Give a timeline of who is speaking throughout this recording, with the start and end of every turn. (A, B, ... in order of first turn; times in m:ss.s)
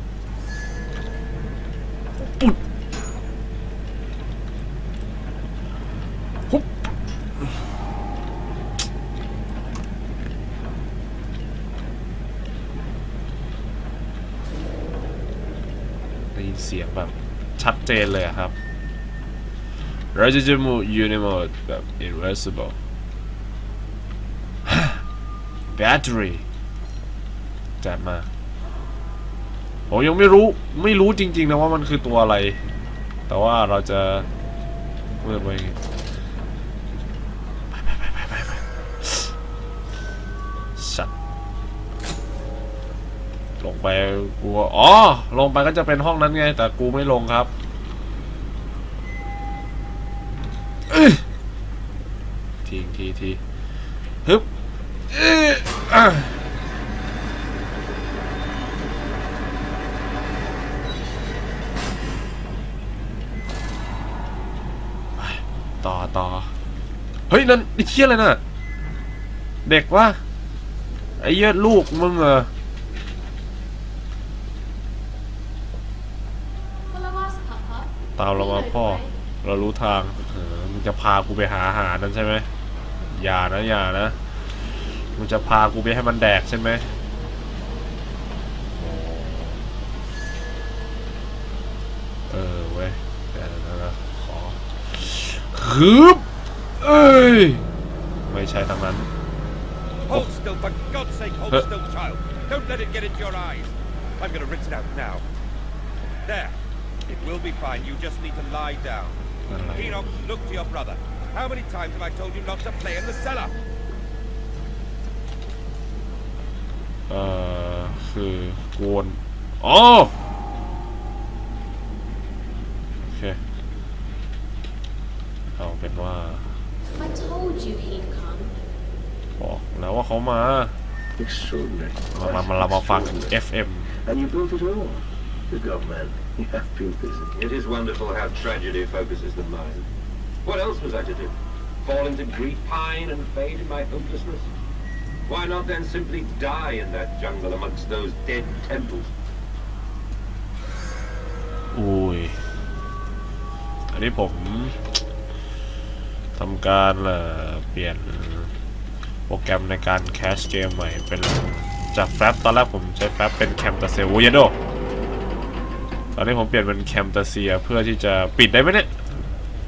0:02.2-0:02.6 A
0:06.5-0:06.9 A
0:16.3-0:18.5 A
0:20.1-0:22.8 A
0:24.6-0:25.0 A
0:25.7-0:26.4 A
0:27.8-0:28.3 A
0:29.9-0:32.6 A
0:33.3-0:34.3 A
0:35.2-0:35.8 A
0:37.7-0:39.3 A
0:40.8-0:41.1 A
0:43.6-0:47.5 A
0:50.9-0:51.2 A
0:52.6-0:53.4 A
0:55.1-0:56.4 A
1:05.2-1:06.5 A
1:07.3-1:08.4 A
1:09.6-1:10.2 A
1:11.2-1:12.5 A
1:16.9-1:19.1 B
1:18.2-1:22.5 A
1:23.1-1:26.9 A
1:28.8-1:29.6 A
1:32.3-1:36.2 A
1:36.8-1:37.6 A
1:38.3-1:39.1 A
1:40.1-1:45.2 C
1:46.2-1:46.5 C
1:47.1-1:49.2 C
1:49.5-1:50.1 A
1:49.7-1:53.5 C
1:57.1-2:00.1 A
2:03.0-2:03.4 A
2:05.6-2:06.6 A
2:06.9-2:08.5 B
2:09.4-2:10.7 A
2:11.2-2:13.4 D
2:12.1-2:13.9 A
2:13.9-2:17.4 D
2:17.3-2:19.9 E
2:20.4-2:24.5 E
2:25.3-2:29.1 E
2:31.7-2:32.4 A
2:33.9-2:34.8 A
2:36.4-2:38.5 A
2:39.3-2:44.6 A
2:46.1-2:49.2 A